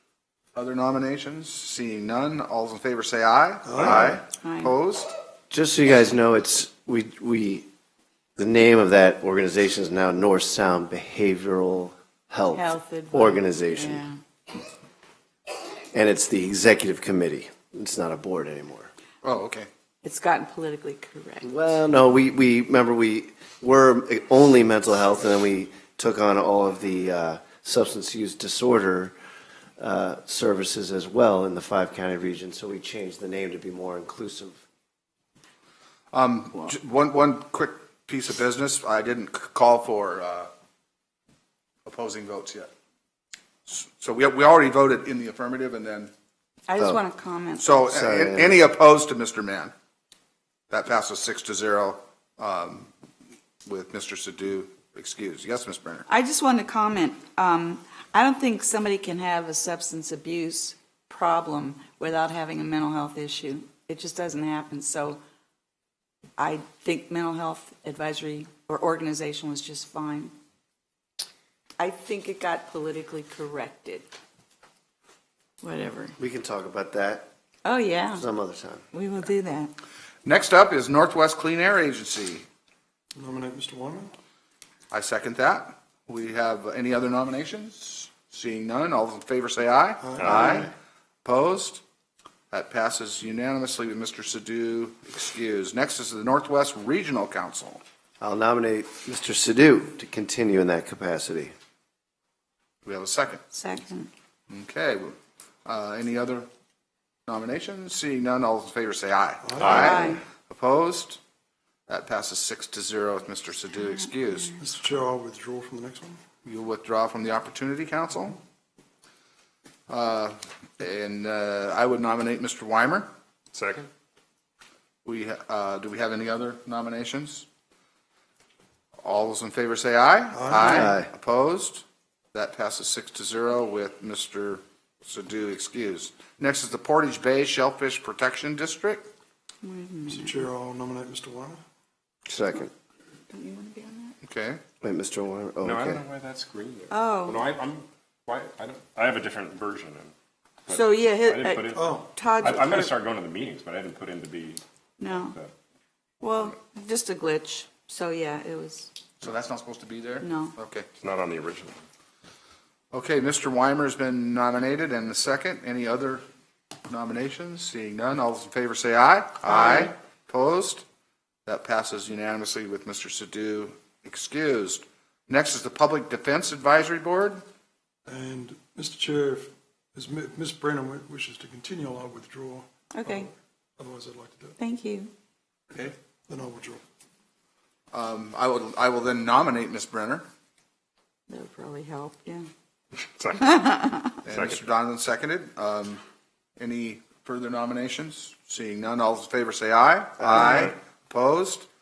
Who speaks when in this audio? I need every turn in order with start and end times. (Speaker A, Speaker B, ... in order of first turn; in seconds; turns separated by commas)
Speaker A: 0.5-5.1, Speaker B: 3.7-4.0, Speaker C: 3.8-4.2, Speaker D: 4.4-4.7, Speaker C: 5.5-7.7, Speaker C: 8.4-14.0, Speaker D: 12.5-14.2, Speaker C: 15.9-18.9, Speaker A: 19.2-19.7, Speaker D: 20.0-21.4, Speaker C: 21.4-29.1, Speaker C: 29.8-34.6, Speaker A: 36.1-40.5, Speaker A: 41.8-42.7, Speaker A: 43.7-46.1, Speaker D: 46.7-47.8, Speaker A: 47.6-49.7, Speaker C: 47.9-48.6, Speaker A: 50.7-52.9, Speaker A: 53.6-56.0, Speaker D: 56.1-65.2, Speaker D: 66.4-70.3, Speaker D: 71.8-74.1, Speaker D: 75.6-76.1, Speaker C: 76.2-77.3, Speaker D: 77.6-78.2, Speaker C: 78.2-78.8, Speaker D: 78.9-79.7, Speaker A: 80.2-82.4, Speaker B: 83.1-84.1, Speaker A: 84.9-90.7, Speaker B: 90.0-90.7, Speaker E: 90.2-90.5, Speaker C: 90.3-90.7, Speaker A: 91.2-91.8, Speaker A: 92.5-97.8, Speaker C: 98.2-101.5, Speaker A: 102.8-103.4, Speaker D: 103.5-104.1, Speaker A: 104.5-106.5, Speaker A: 107.3-111.2, Speaker B: 109.4-110.1, Speaker D: 109.7-110.2, Speaker A: 111.9-114.6, Speaker B: 114.6-116.2, Speaker A: 116.4-118.4, Speaker A: 119.9-123.1, Speaker E: 123.5-123.9, Speaker A: 125.0-127.5, Speaker A: 129.0-139.0, Speaker B: 130.3-130.9, Speaker C: 130.6-131.1, Speaker D: 139.6-140.4, Speaker B: 140.1-141.6, Speaker C: 142.3-142.7, Speaker D: 143.3-144.1, Speaker A: 144.2-144.6, Speaker C: 144.8-146.0, Speaker E: 145.6-150.1, Speaker D: 146.9-147.5, Speaker E: 150.7-155.5, Speaker D: 150.7-152.9, Speaker B: 151.7-152.1, Speaker D: 155.0-155.3, Speaker D: 156.2-158.9, Speaker A: 159.2-160.8, Speaker D: 160.2-160.5, Speaker E: 161.0-161.7, Speaker A: 162.9-166.2, Speaker A: 166.9-170.8, Speaker D: 169.5-169.9, Speaker A: 171.4-177.4, Speaker B: 178.1-184.6, Speaker D: 182.9-183.3, Speaker D: 184.6-185.1, Speaker B: 185.7-186.8, Speaker A: 187.9-190.2, Speaker D: 191.3-192.4, Speaker E: 192.9-194.6, Speaker D: 193.5-194.1, Speaker A: 194.2-196.0, Speaker A: 196.6-201.7